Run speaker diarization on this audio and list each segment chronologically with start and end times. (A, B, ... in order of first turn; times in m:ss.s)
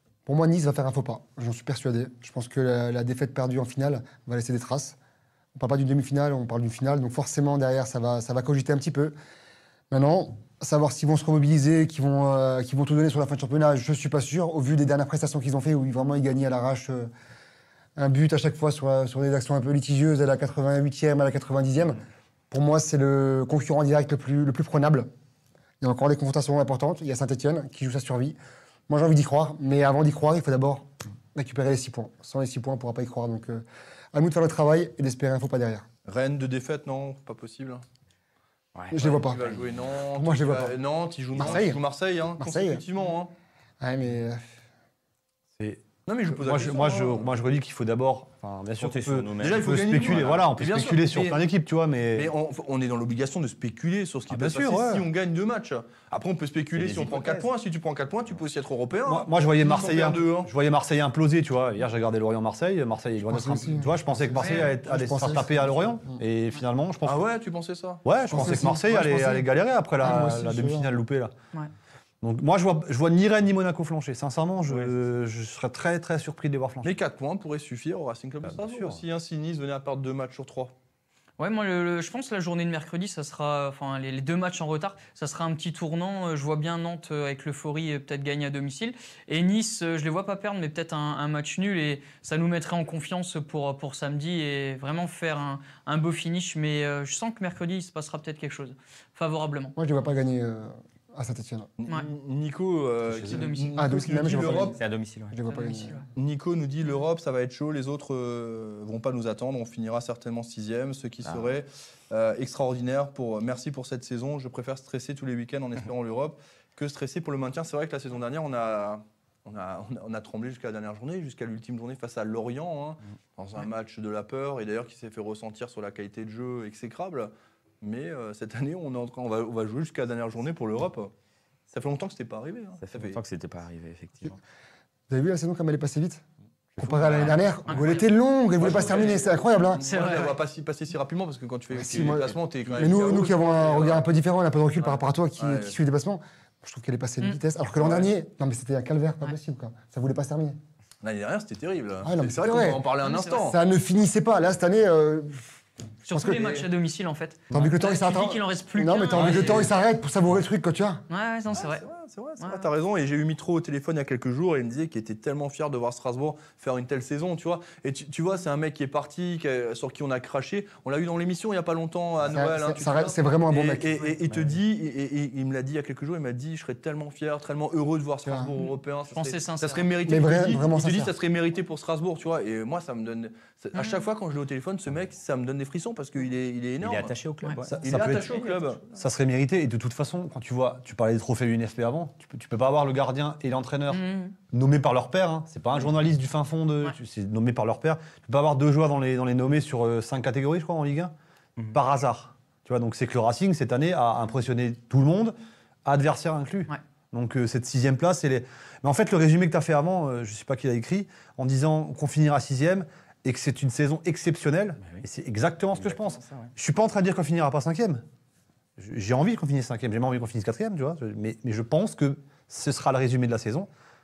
0:00.2-0:05.0 A
0:05.6-0:09.1 A
0:09.9-0:17.1 A
0:18.0-0:25.1 A
0:25.8-0:28.4 A
0:28.9-0:35.9 A
0:36.0-0:37.8 B
0:38.7-0:39.5 C
0:38.9-0:39.4 A
0:39.0-0:43.3 B
0:40.1-0:40.8 A
0:41.3-0:41.8 A
0:42.4-0:42.8 A
0:43.8-0:44.4 A
0:45.6-0:52.3 D
0:46.1-0:47.2 B
0:48.8-0:50.4 C
0:49.4-0:51.4 B
0:52.1-1:00.5 B
0:54.3-0:55.1 D
0:56.7-0:57.5 C
0:59.0-1:07.2 D
1:03.2-1:06.2 A
1:04.4-1:04.7 E
1:07.0-1:08.0 B
1:08.0-1:11.3 D
1:08.3-1:10.9 A
1:12.2-1:17.0 D
1:16.8-1:20.7 B
1:18.4-1:19.0 D
1:21.4-1:39.8 E
1:39.8-1:41.7 A
1:41.8-1:44.8 B
1:43.1-1:43.4 D
1:43.2-1:43.9 E
1:43.8-1:44.8 A
1:44.8-1:45.4 C
1:45.3-1:46.0 A
1:45.5-1:46.0 E
1:46.1-2:11.1 B
1:51.2-1:51.5 C
2:11.7-2:13.2 B
2:12.8-2:14.4 C
2:15.1-2:16.2 A
2:16.8-2:19.9 A
2:16.8-2:17.4 B
2:17.0-2:17.4 C
2:17.6-2:18.1 E
2:18.6-2:24.1 B
2:18.6-2:19.0 C
2:19.8-2:20.4 E
2:21.7-2:30.6 A
2:21.9-2:23.0 C
2:24.8-2:25.8 B
2:27.8-2:28.1 B
2:31.0-2:33.6 B
2:32.0-2:35.4 A
2:33.0-2:33.5 E
2:36.0-2:39.7 E
2:36.1-2:36.6 A
2:37.5-2:41.0 A
2:39.2-2:39.5 D
2:39.2-2:39.7 B
2:41.1-2:41.8 E
2:41.5-3:07.1 B
2:42.4-2:42.7 E
2:52.2-2:54.1 A
2:58.2-2:58.5 A
2:59.1-2:59.9 E
3:00.0-3:01.1 A
3:03.7-3:04.0 E
3:06.8-3:08.3 C
3:07.7-3:08.8 B
3:07.8-3:08.3 D
3:08.9-3:21.1 D
3:13.9-3:14.3 E
3:21.7-3:38.0 D
3:35.7-3:36.5 C
3:38.8-3:43.7 D